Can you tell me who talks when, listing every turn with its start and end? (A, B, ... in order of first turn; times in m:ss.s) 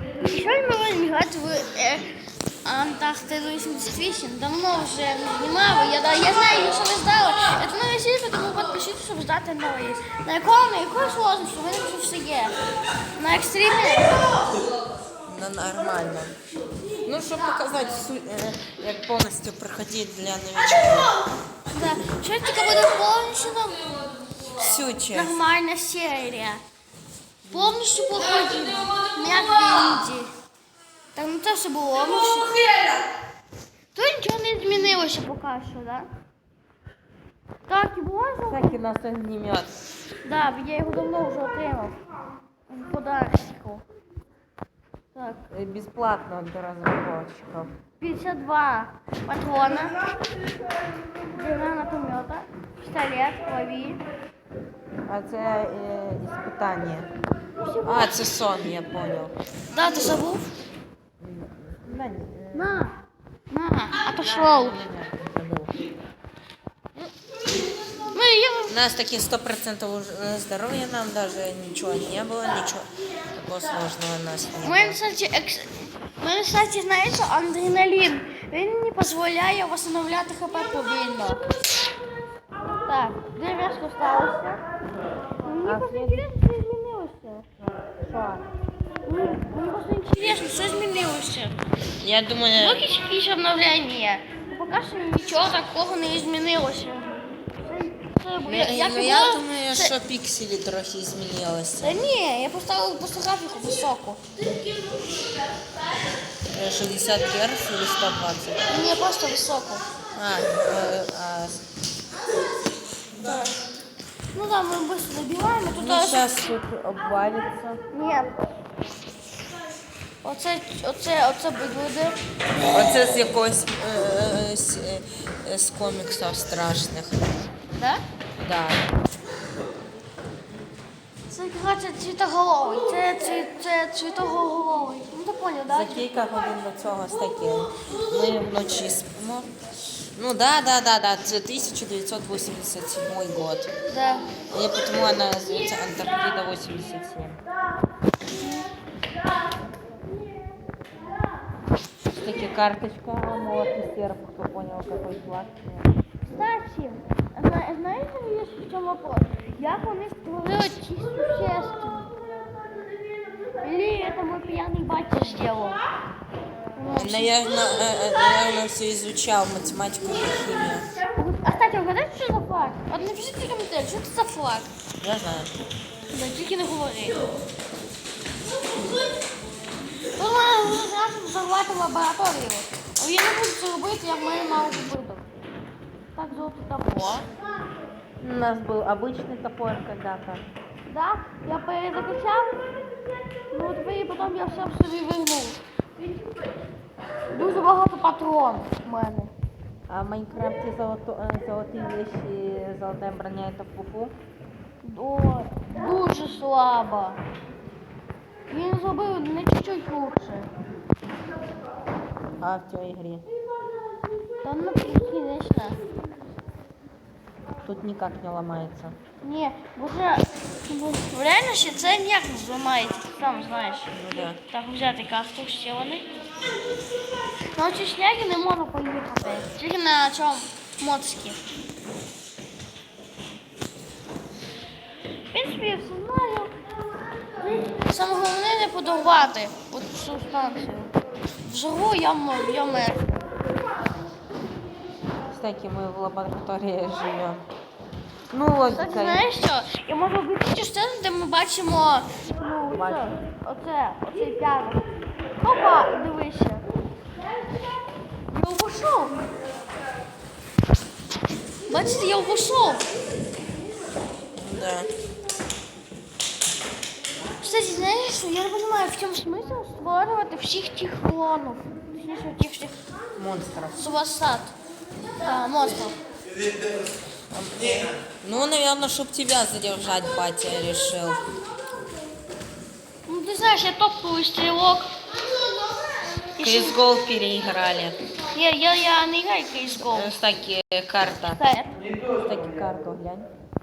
0:00.2-0:02.1 A
0:02.6-0:12.6 A
0:13.2-0:14.2 A
0:15.3-0:16.4 B
0:17.0-0:21.1 B
0:21.7-0:23.9 A
0:24.5-0:25.4 B
0:25.1-0:26.6 A
0:27.5-0:30.3 A
0:31.2-0:32.8 A
0:34.0-0:36.1 A
0:37.7-0:38.8 A
0:38.4-0:39.7 B
0:40.2-0:42.0 A
0:42.7-0:43.8 A
0:45.1-0:45.4 A
0:45.5-0:47.7 B
0:48.0-0:50.0 A
0:51.3-0:54.0 A
0:55.1-0:57.1 B
0:57.6-0:58.2 A
0:57.8-0:59.3 B
0:59.7-1:00.4 A
1:01.2-1:02.9 B
1:02.5-1:03.0 A
1:03.5-1:04.8 A
1:04.1-1:05.8 B
1:08.1-1:08.8 A
1:08.7-1:15.0 B
1:14.6-1:21.4 A
1:22.9-1:24.6 A
1:25.4-1:27.5 A
1:25.6-1:26.2 B
1:28.0-1:28.4 B
1:29.0-1:31.6 A
1:32.0-1:32.9 B
1:32.6-1:39.9 A
1:38.4-1:42.0 B
1:41.8-1:44.2 A
1:46.5-1:48.7 B
1:48.7-1:49.8 A
1:50.2-1:51.6 B
1:53.2-1:53.6 A
1:54.3-1:56.3 A
1:55.7-1:57.8 B
1:57.9-1:58.4 A
2:00.2-2:02.2 A
2:02.7-2:07.3 B
2:07.7-2:08.0 A
2:08.4-2:08.9 B
2:11.3-2:16.0 A
2:15.7-2:23.7 B
2:23.9-2:24.3 A
2:24.5-2:27.4 B
2:28.4-2:28.7 A
2:32.0-2:35.9 B
2:36.2-2:42.1 A
2:43.6-2:45.8 A
2:46.8-2:47.4 A
2:46.9-2:50.9 B
2:51.0-2:54.7 A
2:55.0-2:55.5 B
2:56.1-2:57.2 A
3:00.2-3:05.3 A
3:06.2-3:07.3 A
3:08.2-3:10.4 B
3:10.9-3:12.6 A
3:13.5-3:15.6 A
3:17.3-3:19.3 A
3:19.9-3:24.1 B
3:24.8-3:27.2 A
3:28.5-3:30.5 A
3:32.4-3:33.3 B
3:34.4-3:35.8 A
3:37.6-3:39.0 B
3:39.2-3:46.1 A
3:43.9-3:44.4 B
3:47.6-3:51.4 A
3:55.3-3:56.6 A
3:57.4-4:03.2 A
4:05.3-4:07.4 B
4:08.3-4:09.3 B
4:08.7-4:14.8 A
4:12.7-4:13.2 B
4:15.4-4:16.6 A
4:18.3-4:19.2 A
4:21.7-4:22.8 A
4:24.4-4:24.9 B
4:27.4-4:32.8 A
4:33.2-4:33.8 B
4:33.8-4:34.5 A
4:35.2-4:36.0 A
4:37.3-4:41.3 B
4:43.1-4:44.9 A
4:46.4-4:46.8 A
4:46.4-4:48.0 B
4:48.3-4:50.1 A
4:49.9-4:51.4 B
4:51.2-4:51.8 A
4:52.1-4:53.3 B